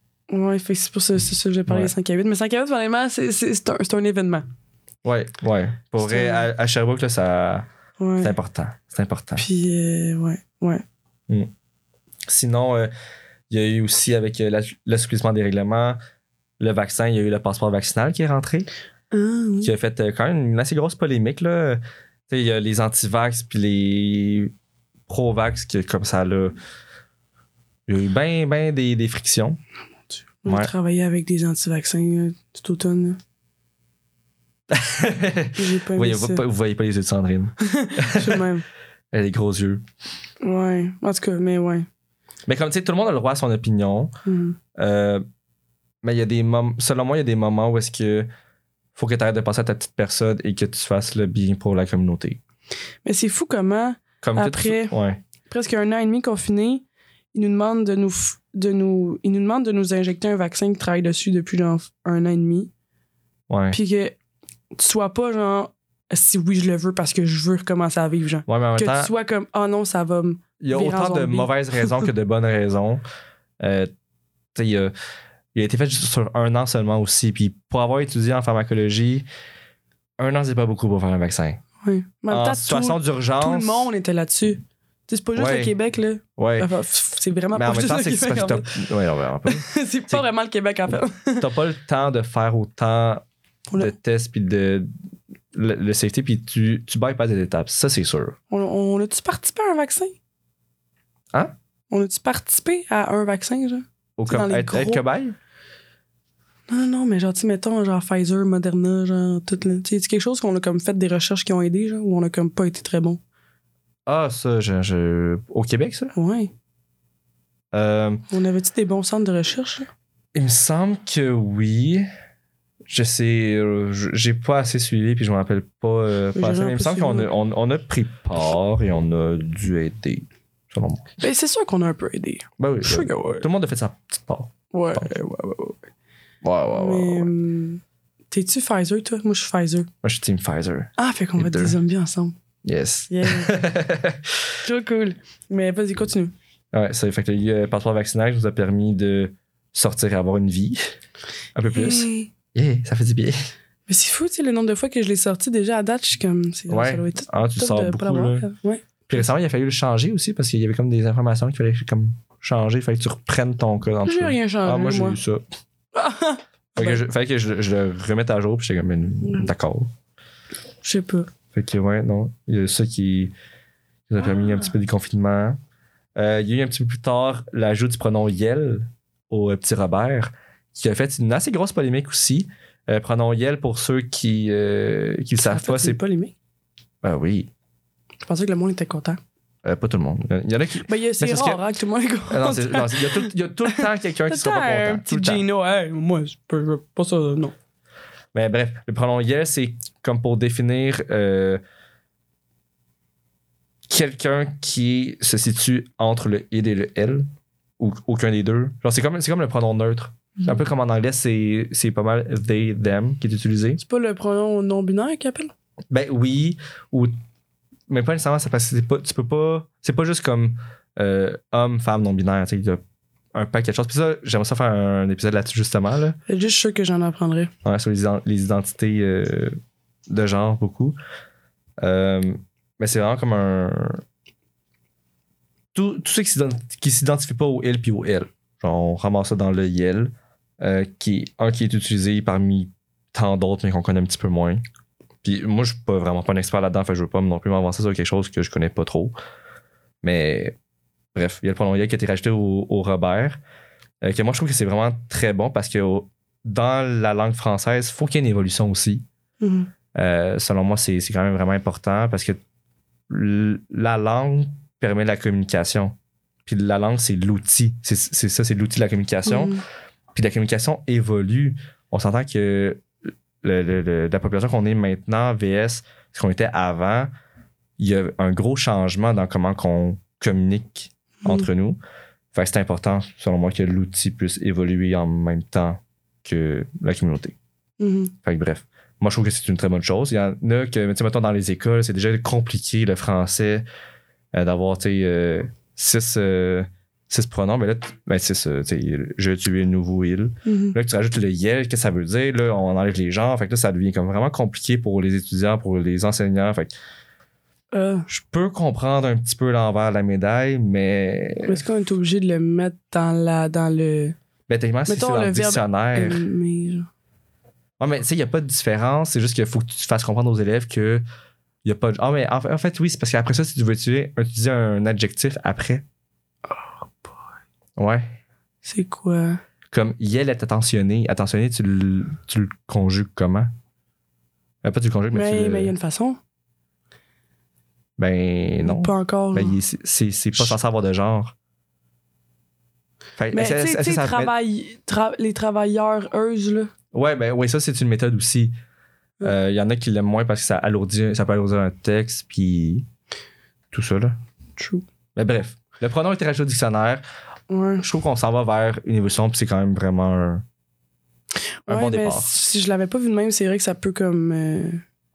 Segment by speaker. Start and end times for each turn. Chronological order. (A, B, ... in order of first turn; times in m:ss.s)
0:00.3-0:04.4 A
0:01.7-0:01.9 B
0:05.0-0:07.6 B
0:06.0-0:06.4 A
0:08.0-0:08.3 A
0:08.2-0:09.4 B
0:09.4-0:10.8 A
0:12.3-0:12.9 B
0:13.5-0:16.0 B
0:16.6-0:18.7 B
0:19.1-0:19.7 A
0:19.6-0:24.5 B
0:25.1-0:26.6 B
0:27.9-0:29.6 B
0:30.4-0:33.2 A
0:30.4-0:30.7 B
0:34.7-0:38.4 B
0:35.5-0:36.4 A
0:37.6-0:38.6 A
0:39.1-0:39.8 B
0:40.4-0:41.9 A
0:42.4-0:44.1 B
0:44.2-0:44.6 A
0:44.7-0:45.2 B
0:46.0-0:48.3 B
0:49.0-0:52.4 B
0:53.0-0:54.9 A
0:54.2-0:55.2 B
0:55.5-1:02.7 A
1:03.5-1:03.8 B
1:03.7-1:04.2 A
1:04.7-1:12.0 A
1:08.5-1:09.1 B
1:10.6-1:13.0 B
1:13.6-1:13.9 B
1:14.5-1:14.9 B
1:15.5-1:19.2 B
1:20.2-1:21.6 B
1:21.8-1:28.8 A
1:22.3-1:23.9 B
1:25.4-1:25.7 B
1:26.4-1:26.7 B
1:27.5-1:30.2 B
1:29.4-1:31.4 A
1:31.4-1:33.2 B
1:33.8-1:34.9 B
1:35.5-1:38.4 B
1:38.5-1:40.1 A
1:41.9-1:45.0 A
1:44.2-1:45.4 B
1:46.7-1:53.2 A
1:54.0-1:56.1 B
1:56.1-1:56.5 A
1:57.7-1:58.2 B
1:58.3-1:59.9 A
2:00.3-2:02.1 B
2:02.9-2:11.1 B
2:06.3-2:07.3 A
2:11.2-2:13.5 A
2:12.6-2:15.1 B
2:14.7-2:15.8 A
2:16.4-2:17.3 B
2:16.7-2:19.9 A
2:20.0-2:21.8 B
2:21.0-2:22.4 A
2:22.6-2:24.4 B
2:23.1-2:23.6 A
2:24.6-2:26.3 A
2:26.7-2:30.8 B
2:31.5-2:33.4 B
2:31.7-2:32.3 A
2:33.9-2:38.8 A
2:36.7-2:38.5 B
2:39.1-2:45.4 B
2:44.0-2:45.2 A
2:45.9-2:47.0 A
2:46.7-2:49.9 B
2:49.2-2:49.5 A
2:50.8-2:51.3 A
2:51.5-2:53.3 B
2:54.1-2:55.6 B
2:56.1-3:06.0 B
3:05.4-3:06.3 A
3:07.0-3:07.5 B
3:08.2-3:09.2 A
3:09.6-3:11.6 B
3:10.9-3:17.5 A
3:12.3-3:15.4 B
3:18.3-3:21.6 B
3:23.9-3:27.3 B
3:27.8-3:33.8 B
3:33.8-3:35.5 A
3:35.9-3:37.1 B
3:37.9-3:42.8 B
3:43.3-3:46.2 B
3:46.3-3:47.5 A
3:47.6-3:49.6 B
3:50.1-3:51.0 B
3:51.8-3:54.0 B
3:55.7-4:04.6 B
4:05.2-4:09.2 B
4:10.0-4:10.6 B
4:11.1-4:13.4 B
4:14.0-4:19.0 B
4:19.4-4:19.7 A
4:19.9-4:22.4 B
4:23.1-4:25.9 B
4:26.4-4:29.6 B
4:29.2-4:29.6 A
4:30.1-4:32.8 B
4:33.4-4:37.1 B
4:37.8-4:41.8 B
4:42.3-4:47.4 B
4:47.8-4:48.1 A
4:48.2-4:53.6 B
4:54.3-5:06.7 B
5:00.4-5:00.8 A
5:07.7-5:08.0 A
5:08.1-5:11.6 B
5:11.4-5:14.1 A
5:14.5-5:16.3 B
5:14.9-5:16.9 A
5:17.8-5:21.0 B
5:21.6-5:25.8 B
5:26.5-5:27.2 A
5:27.8-5:28.2 B
5:28.6-5:29.4 A
5:29.7-5:33.5 B
5:34.6-5:35.7 B
5:35.1-5:36.2 A
5:38.0-5:41.3 B
5:38.6-5:39.6 A
5:43.2-5:44.3 B
5:43.3-5:46.7 A
5:46.9-5:48.5 B
5:49.2-5:52.9 B
5:53.7-5:54.2 B
5:54.6-5:54.8 A
5:55.1-5:57.0 B
5:57.5-5:57.8 A
5:57.8-6:00.4 B
6:01.6-6:04.8 A
6:01.7-6:02.3 B